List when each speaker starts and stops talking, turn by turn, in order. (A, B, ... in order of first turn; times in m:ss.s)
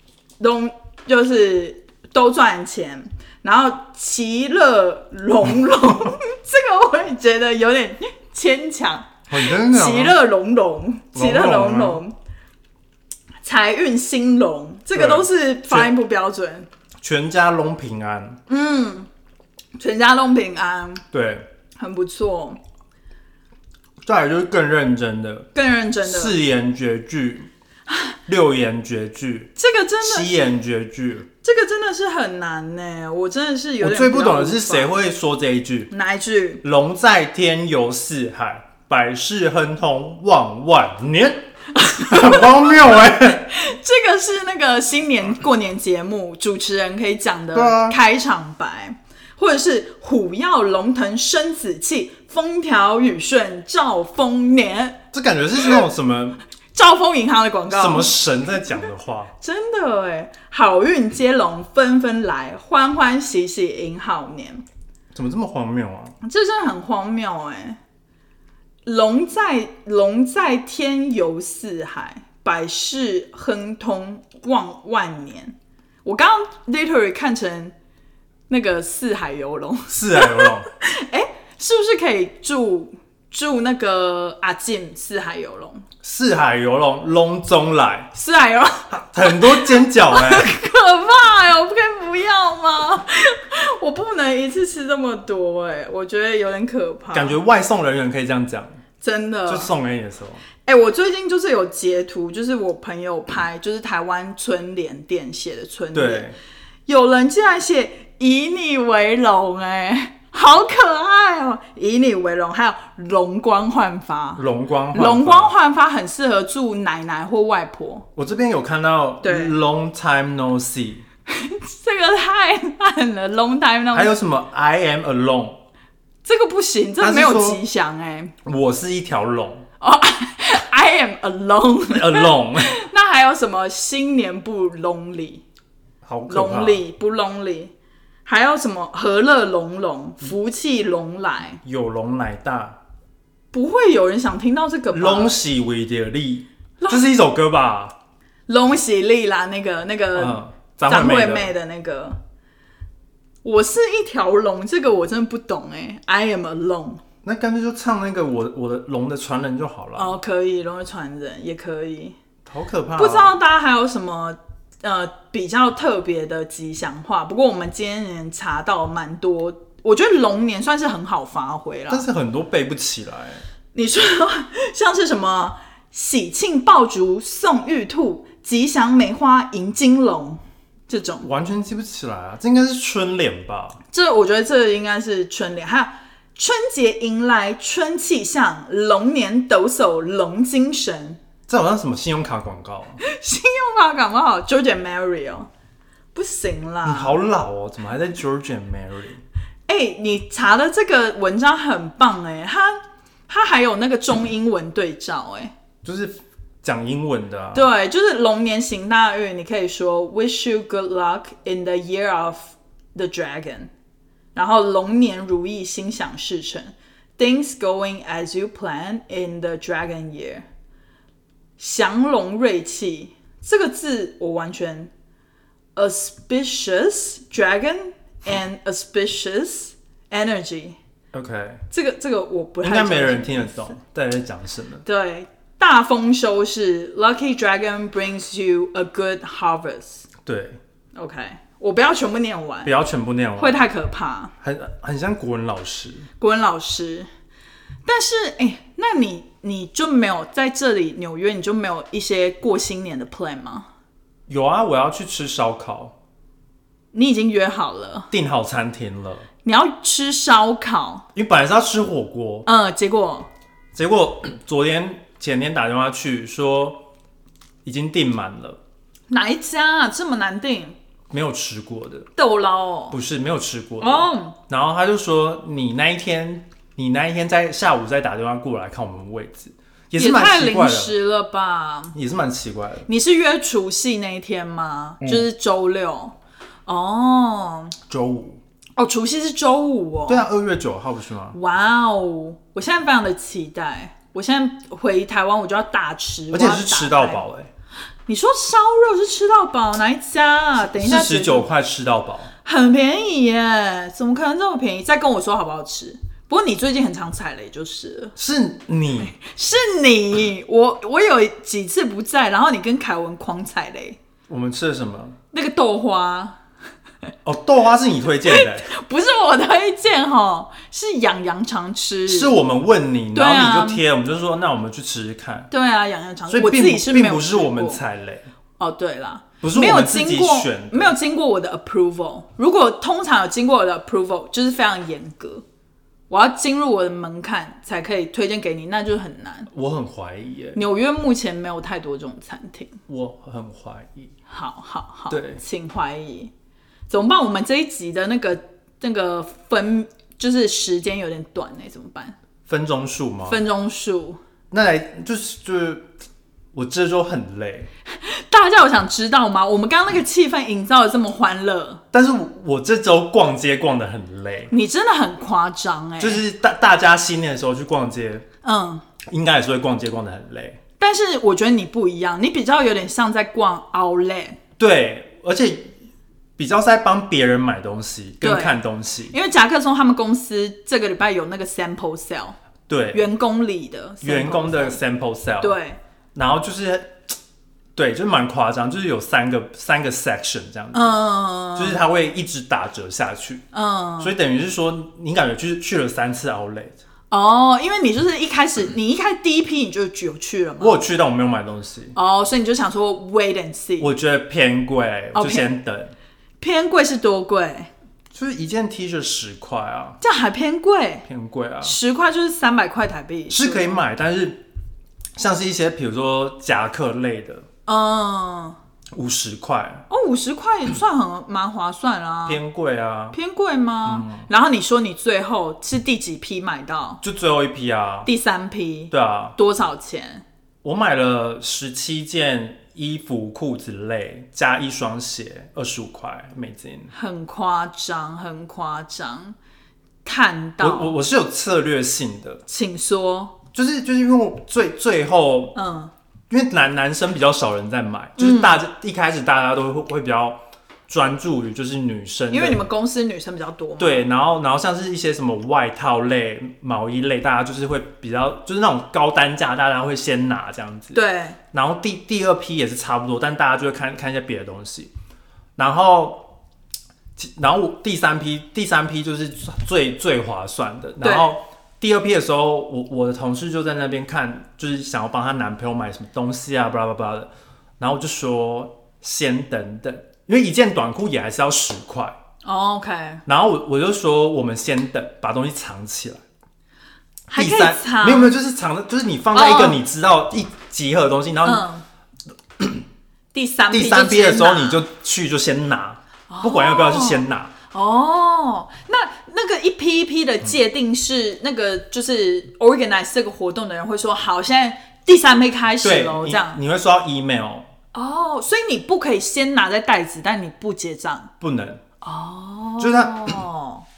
0:00.4-0:12.1 A
0:09.3-0:10.2 B
0:11.1-0:12.0 B
0:13.4-0:16.7 A
0:14.9-0:15.9 B
0:17.0-0:18.4 B
0:18.5-0:19.1 A
0:19.8-0:21.0 A
0:21.1-0:21.5 B
0:21.8-0:22.6 A
0:24.0-0:25.5 B
0:25.5-0:26.4 A
0:26.0-0:27.5 B
0:27.9-0:28.2 A
0:28.3-0:31.3 B
0:29.6-0:30.3 A
0:31.4-0:34.9 A
0:33.8-0:35.9 B
0:35.9-0:36.6 A
0:36.6-0:43.5 B
0:41.7-0:55.0 A
0:47.5-0:48.0 B
0:55.1-0:56.4 B
0:56.7-0:58.1 A
0:57.7-0:59.3 B
0:59.4-1:04.6 A
1:05.1-1:06.1 B
1:06.2-1:07.8 A
1:08.8-1:17.7 A
1:18.5-1:25.8 A
1:19.9-1:20.7 B
1:26.0-1:28.1 B
1:28.1-1:37.4 A
1:28.9-1:30.5 B
1:37.1-1:38.8 B
1:39.0-1:39.7 A
1:39.5-1:40.4 B
1:40.6-1:46.3 A
1:45.9-1:46.4 B
1:46.9-1:58.1 A
1:54.4-1:55.5 B
1:58.2-2:01.0 B
1:59.2-1:59.5 A
2:01.3-2:04.1 A
2:03.9-2:05.6 B
2:06.2-2:08.3 A
2:07.0-2:07.6 B
2:08.4-2:09.6 B
2:09.8-2:15.4 A
2:11.9-2:12.8 B
2:16.0-2:16.8 B
2:16.3-2:17.7 A
2:18.2-2:21.6 A
2:21.6-2:22.8 B
2:23.5-2:25.3 A
2:24.9-2:28.0 B
2:26.8-2:27.1 A
2:28.5-2:32.2 A
2:30.1-2:31.5 B
2:33.4-2:37.0 A
2:37.2-2:40.2 B
2:40.0-2:42.2 A
2:42.4-2:43.3 B
2:43.0-2:52.0 A
2:51.9-2:53.4 B
2:53.7-3:01.3 A
3:01.2-3:03.8 B
3:03.9-3:11.2 A
3:11.5-3:13.0 B
3:13.0-3:15.5 A
3:16.1-3:17.2 A
3:16.8-3:19.2 B
3:19.7-3:25.5 A
3:25.8-3:27.7 B
3:27.5-3:33.7 A
3:34.3-3:40.4 A
3:41.6-3:44.9 A
3:45.8-3:50.8 A
3:51.1-3:51.6 B
3:51.7-3:53.8 A
3:52.6-3:54.8 B
3:54.8-4:00.1 A
4:00.2-4:00.6 B
4:00.9-4:02.7 A
4:02.6-4:03.6 B
4:03.4-4:04.3 A
4:04.4-4:06.1 B
4:06.2-4:07.1 A
4:07.8-4:13.7 A
4:14.3-4:15.9 B
4:16.9-4:18.1 A
4:18.1-4:19.3 B
4:19.4-4:21.0 A
4:21.1-4:22.5 B
4:22.4-4:23.3 A
4:23.7-4:26.9 B
4:27.6-4:28.6 B
4:29.1-4:30.8 A
4:31.1-4:32.1 B
4:32.2-4:33.0 A
4:32.9-4:40.9 B
4:33.8-4:34.4 A
4:40.0-4:42.0 A
4:41.9-4:42.9 B
4:42.9-4:46.1 A
4:46.6-4:47.7 A
4:47.9-4:48.4 B
4:48.8-4:50.3 A
4:50.1-4:51.4 B
4:51.3-4:57.2 A
4:56.3-4:57.5 B
4:58.1-5:01.5 A
5:00.6-5:02.3 B
5:02.4-5:08.1 A
5:08.2-5:09.2 B
5:09.0-5:14.0 A
5:14.3-5:15.2 B
5:15.3-5:16.4 A
5:17.2-5:18.7 B
5:18.2-5:22.3 A
5:22.1-5:25.5 B
5:23.1-5:23.8 A
5:25.5-5:27.8 A
5:26.3-5:28.2 B
5:28.6-5:35.4 A
5:29.4-5:30.9 B
5:36.1-5:39.5 A
5:39.5-5:40.6 B
5:40.5-5:42.8 A
5:42.9-5:44.1 B
5:44.3-5:46.3 A
5:45.1-5:45.4 B
5:46.9-5:52.2 A
5:52.5-5:53.4 B
5:53.3-5:54.2 A
5:54.5-5:55.9 B
5:56.5-5:57.7 B
5:58.0-6:01.8 A
6:01.9-6:04.5 B
6:04.5-6:06.2 A
6:06.0-6:08.2 B
6:08.4-6:08.8 A
6:09.0-6:10.6 B
6:10.8-6:14.4 A
6:14.6-6:15.7 B
6:16.4-6:19.1 B
6:18.2-6:18.6 A
6:19.1-6:22.4 A
6:22.7-6:23.1 B
6:22.9-6:24.8 A
6:24.0-6:25.6 B
6:25.4-6:25.8 A
6:26.1-6:27.1 B
6:27.8-6:31.0 B
6:30.7-6:31.8 A
6:31.6-6:33.4 B
6:33.5-6:34.1 A
6:34.0-6:36.8 B
6:37.1-6:40.8 A
6:40.6-6:42.0 B
6:42.0-6:43.9 A
6:43.8-6:45.9 B
6:45.1-6:45.5 A
6:46.4-6:47.7 A
6:48.1-6:50.0 B
6:50.0-6:51.0 A
6:51.0-6:51.8 B
6:51.6-6:53.8 A
6:53.3-6:54.4 B
6:55.2-6:57.4 B
6:57.6-6:58.6 A
6:58.9-6:59.8 B
6:59.9-7:02.4 A
7:02.2-7:03.2 B
7:03.1-7:07.0 A
7:03.8-7:04.3 B
7:07.0-7:08.1 B
7:08.0-7:10.2 A
7:08.9-7:09.4 B
7:10.6-7:16.9 B
7:16.9-7:19.4 A
7:20.0-7:21.0 A
7:20.6-7:22.4 B
7:22.5-7:23.4 A
7:23.5-7:25.6 B
7:25.5-7:25.9 A
7:26.3-7:32.6 B
7:28.2-7:28.6 A
7:32.3-7:34.1 A
7:33.8-7:41.0 B
7:40.9-7:41.4 A
7:41.5-7:44.9 B
7:45.6-7:46.4 B
7:47.2-8:02.2 B
7:51.0-7:51.4 A
8:02.4-8:03.2 A
8:03.2-8:06.2 B
8:07.3-8:08.3 A
8:07.3-8:11.7 B
8:09.3-8:09.8 A
8:11.4-8:11.8 A
8:12.6-8:12.8 B
8:13.3-8:14.8 A
8:13.7-8:17.5 B
8:16.3-8:26.6 A
8:25.8-8:27.7 B
8:27.9-8:31.3 A
8:31.4-8:31.8 B
8:32.0-8:33.8 A
8:32.8-8:33.4 B